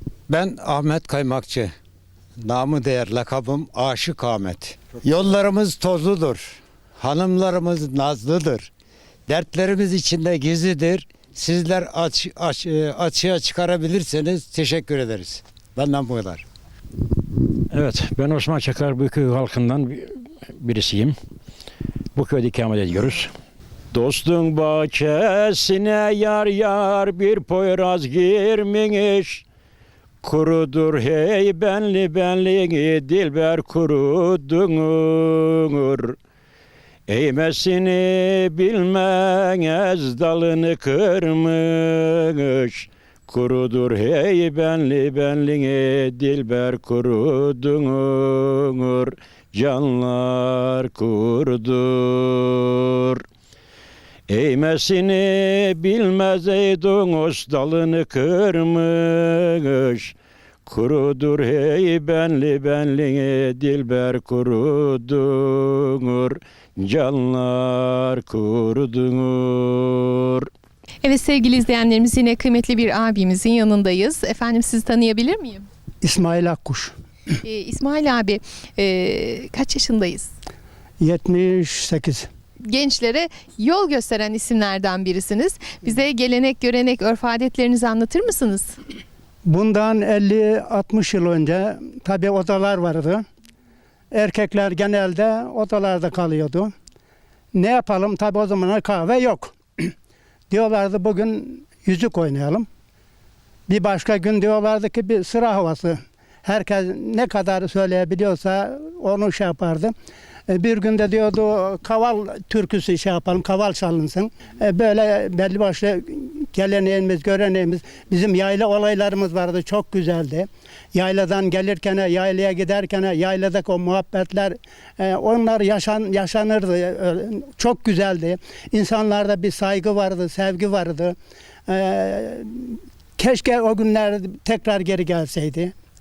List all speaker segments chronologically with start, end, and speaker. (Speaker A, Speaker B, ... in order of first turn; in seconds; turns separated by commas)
Speaker A: 0.3-1.7, Speaker A: 2.4-8.7, Speaker A: 9.3-16.4, Speaker B: 17.7-21.1, Speaker B: 22.1-23.3, Speaker B: 23.9-29.4, Speaker B: 30.2-36.2, Speaker B: 37.1-53.2, Speaker B: 54.3-60.1, Speaker B: 60.7-70.5, Speaker C: 71.0-75.6, Speaker D: 76.0-76.9, Speaker C: 77.4-80.3, Speaker D: 81.0-82.3, Speaker C: 82.7-88.7, Speaker D: 89.5-93.2, Speaker D: 94.1-96.7, Speaker D: 97.5-99.9, Speaker D: 100.5-102.7, Speaker D: 103.7-109.9, Speaker D: 110.5-131.1, Speaker D: 131.7-135.7